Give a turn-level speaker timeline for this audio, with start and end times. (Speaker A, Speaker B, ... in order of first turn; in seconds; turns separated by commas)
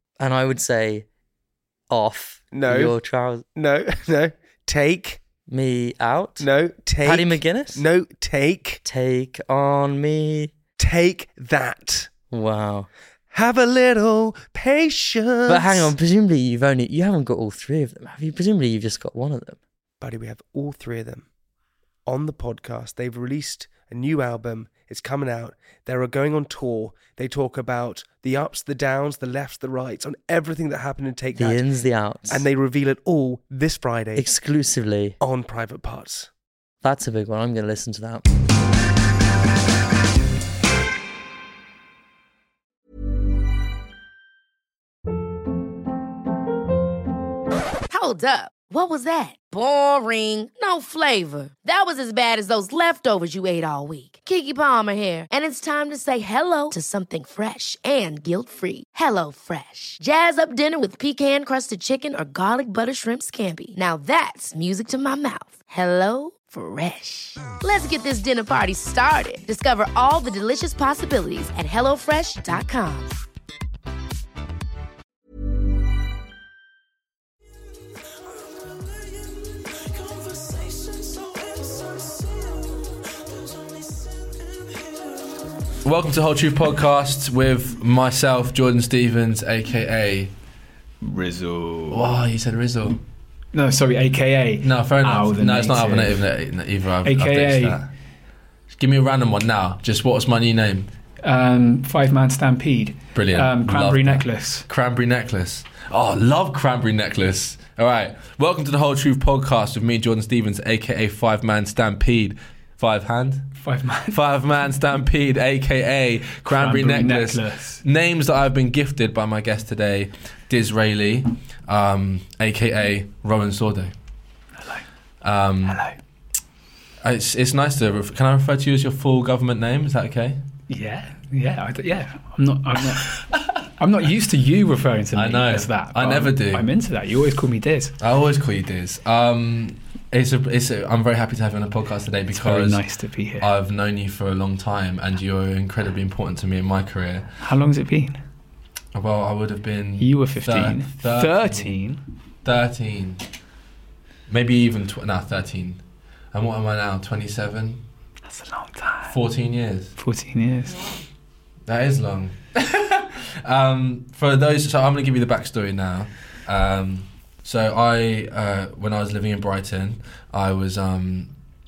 Speaker A: 0.2-1.1, Speaker A: 1.9-3.5, Speaker B: 2.5-5.2, Speaker A: 5.5-6.5, Speaker B: 6.4-8.8, Speaker A: 7.0-7.8, Speaker A: 8.8-10.5, Speaker B: 10.8-12.1, Speaker A: 12.3-12.9, Speaker B: 13.3-15.9, Speaker A: 15.5-19.6, Speaker B: 20.0-21.3, Speaker B: 22.1-31.6, Speaker A: 31.4-32.5, Speaker B: 32.3-34.2, Speaker A: 34.1-35.2, Speaker B: 35.2-36.3, Speaker A: 36.8-38.2, Speaker C: 47.9-73.1, Speaker D: 85.8-90.3, Speaker E: 91.0-92.1, Speaker D: 91.9-93.0, Speaker E: 93.5-96.3, Speaker D: 94.6-97.9, Speaker E: 97.0-97.8, Speaker D: 98.7-100.9, Speaker E: 101.2-104.7, Speaker D: 103.2-113.5, Speaker E: 113.6-114.2, Speaker D: 114.1-123.9, Speaker E: 116.4-117.8, Speaker D: 125.2-125.8, Speaker E: 125.7-126.0, Speaker D: 127.0-130.4, Speaker E: 130.7-137.9, Speaker D: 135.1-136.7, Speaker D: 138.0-142.8, Speaker E: 142.3-143.5, Speaker D: 143.4-147.3, Speaker E: 147.4-148.2, Speaker D: 148.9-151.7, Speaker E: 150.0-152.0, Speaker D: 152.4-153.3, Speaker D: 154.3-155.8, Speaker D: 156.3-157.8, Speaker E: 158.2-159.2, Speaker D: 159.1-159.9, Speaker E: 160.0-160.8, Speaker D: 161.7-171.3